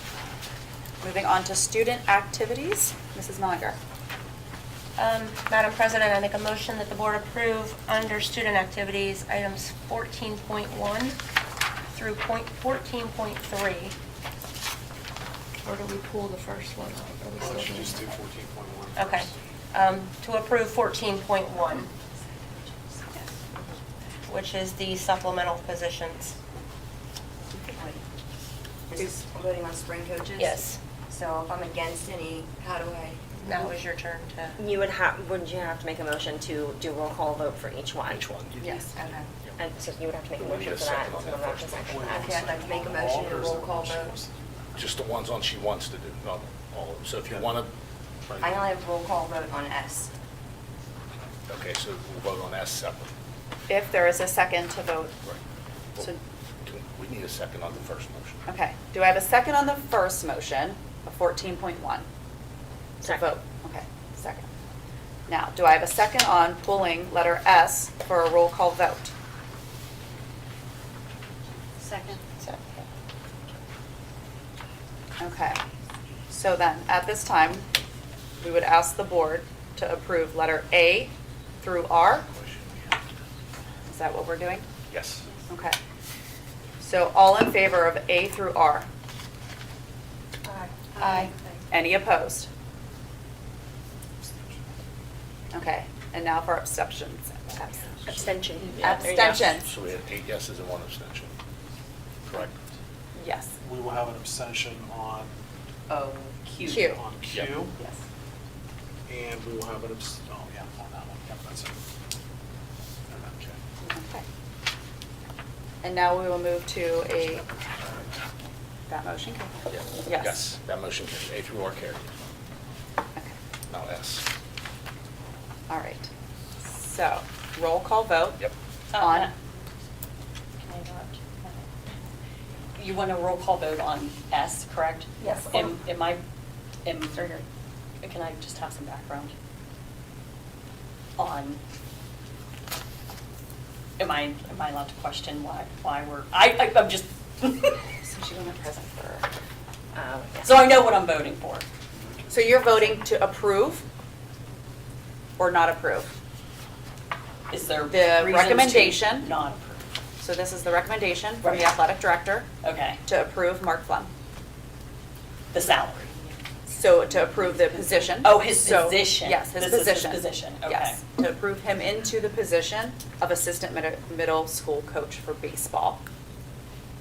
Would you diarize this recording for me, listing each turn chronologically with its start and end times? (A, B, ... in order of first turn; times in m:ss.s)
0:01.0-0:03.8 A
0:05.0-0:11.2 B
0:11.9-0:14.0 B
0:15.6-0:18.2 B
0:17.4-0:19.3 C
0:19.0-0:21.9 B
0:24.3-0:26.4 B
0:27.7-0:28.0 D
0:28.9-0:33.6 D
0:30.4-0:30.8 B
0:33.4-0:34.6 B
0:34.6-0:38.3 E
0:38.1-0:39.6 F
0:38.6-0:39.0 A
0:39.0-0:39.3 D
0:39.6-0:42.4 E
0:40.4-0:42.2 F
0:41.9-0:44.8 C
0:42.2-0:44.1 D
0:44.8-0:47.7 F
0:48.3-0:48.6 F
0:48.4-0:50.1 D
0:51.5-0:53.1 F
0:53.7-0:55.1 A
0:56.6-0:58.4 F
0:58.5-1:02.1 A
1:03.0-1:03.3 E
1:03.0-1:04.5 A
1:05.3-1:09.1 A
1:11.8-1:12.2 A
1:12.4-1:12.8 B
1:15.2-1:15.6 A
1:16.3-1:17.7 A
1:18.4-1:22.3 A
1:22.3-1:23.0 F
1:23.9-1:24.7 A
1:24.9-1:25.3 F
1:25.5-1:25.8 A
1:26.8-1:28.9 A
1:30.5-1:31.3 B
1:31.1-1:32.5 A
1:35.5-1:39.7 A
1:38.1-1:39.6 E
1:39.4-1:41.3 F
1:43.2-1:43.6 A
1:43.6-1:45.4 C
1:45.9-1:46.8 G
1:46.6-1:47.7 C
1:46.6-1:47.0 A
1:47.3-1:47.6 F
1:49.1-1:51.8 C
1:53.1-1:53.5 F
1:53.2-1:53.5 C
1:53.8-1:54.2 A
1:55.8-1:57.4 A
1:58.9-2:00.4 A
1:59.7-2:02.2 F
2:03.7-2:04.3 F
2:05.7-2:06.1 A
2:06.6-2:08.4 A
2:08.9-2:09.3 G
2:09.0-2:09.3 A
2:10.6-2:11.7 G
2:12.8-2:16.2 G
2:15.2-2:15.8 B
2:16.8-2:17.4 G
2:17.1-2:17.4 B
2:18.0-2:19.3 G
2:21.2-2:21.6 G
2:24.0-2:27.8 G
2:28.0-2:29.3 A
2:30.0-2:30.7 E
2:30.4-2:31.7 G
2:32.3-2:33.8 A
2:35.4-2:36.1 A
2:37.5-2:39.8 G
2:37.9-2:39.3 A
2:40.2-2:42.5 A
2:41.4-2:41.7 G
2:42.6-2:43.0 G
2:43.0-2:44.1 A
2:45.5-2:46.2 G
2:46.7-2:56.0 A
2:47.7-2:51.0 G